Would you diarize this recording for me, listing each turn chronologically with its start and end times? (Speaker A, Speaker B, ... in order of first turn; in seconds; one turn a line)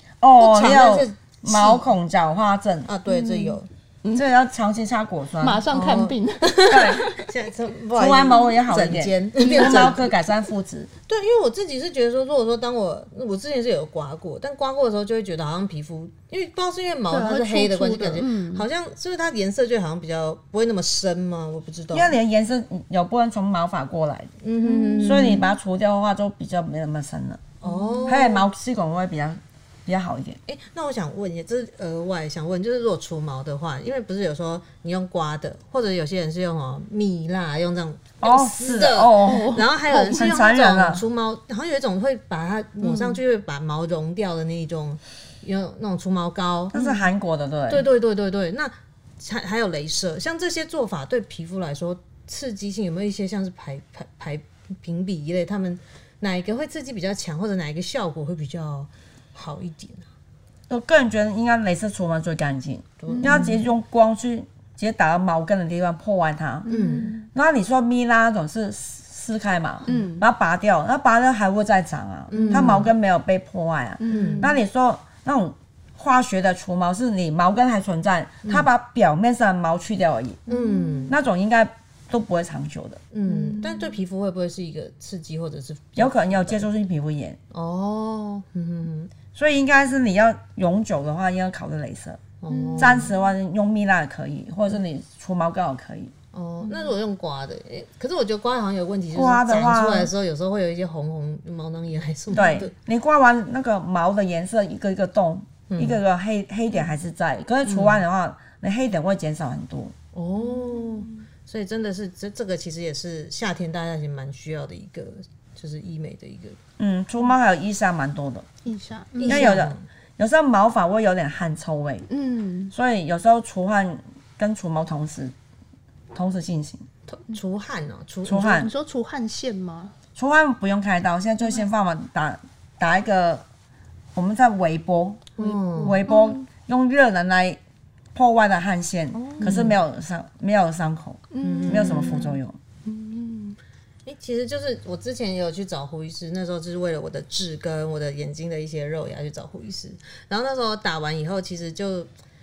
Speaker A: 0.2-2.9
Speaker B: 0.4-1.8
Speaker B: 2.9-3.7
Speaker C: 3.1-4.2
Speaker A: 4.1-5.6
Speaker C: 5.4-7.2
Speaker B: 5.7-10.0
Speaker A: 6.7-7.0
Speaker A: 8.0-10.9
Speaker C: 9.4-9.9
Speaker B: 11.1-22.1
Speaker C: 17.1-18.6
Speaker A: 21.9-24.3
Speaker B: 24.4-25.4
Speaker C: 24.6-25.4
Speaker A: 25.0-27.4
Speaker B: 27.6-28.4
Speaker C: 27.7-28.0
Speaker A: 28.1-30.4
Speaker B: 30.5-46.8
Speaker A: 38.2-41.0
Speaker C: 39.2-40.2
Speaker C: 42.8-43.2
Speaker A: 46.7-47.9
Speaker B: 47.7-60.1
Speaker A: 60.7-66.7
Speaker B: 63.0-63.6
Speaker C: 63.1-63.6
Speaker C: 66.6-67.2
Speaker B: 66.7-67.1
Speaker A: 67.3-80.4
Speaker C: 69.8-70.2
Speaker B: 72.3-72.9
Speaker C: 72.3-72.7
Speaker C: 74.0-74.5
Speaker B: 74.1-74.5
Speaker C: 80.5-81.1
Speaker B: 80.5-81.1
Speaker A: 81.1-83.0
Speaker B: 83.1-86.7
Speaker C: 83.3-83.9
Speaker A: 86.0-87.4
Speaker B: 87.5-89.1
Speaker A: 89.3-92.2
Speaker B: 92.4-93.1
Speaker C: 92.5-93.1
Speaker A: 92.8-96.1
Speaker B: 96.3-102.7
Speaker A: 99.1-100.1
Speaker A: 102.3-109.9
Speaker B: 105.7-106.0
Speaker B: 107.6-108.0
Speaker B: 110.1-116.6
Speaker C: 110.4-111.2
Speaker A: 116.8-118.5
Speaker C: 118.6-119.6
Speaker B: 119.1-119.8
Speaker A: 119.2-122.1
Speaker C: 122.1-122.7
Speaker A: 122.7-125.3
Speaker A: 126.1-126.8
Speaker B: 127.1-128.6
Speaker A: 128.2-128.7
Speaker C: 128.3-129.9
Speaker A: 130.2-133.4
Speaker A: 134.1-135.3
Speaker B: 135.4-136.0
Speaker C: 135.4-136.4
Speaker A: 135.8-137.6
Speaker A: 138.1-142.6
Speaker C: 139.1-139.7
Speaker B: 139.4-139.8
Speaker C: 141.3-143.6
Speaker B: 141.4-142.3
Speaker B: 144.1-152.1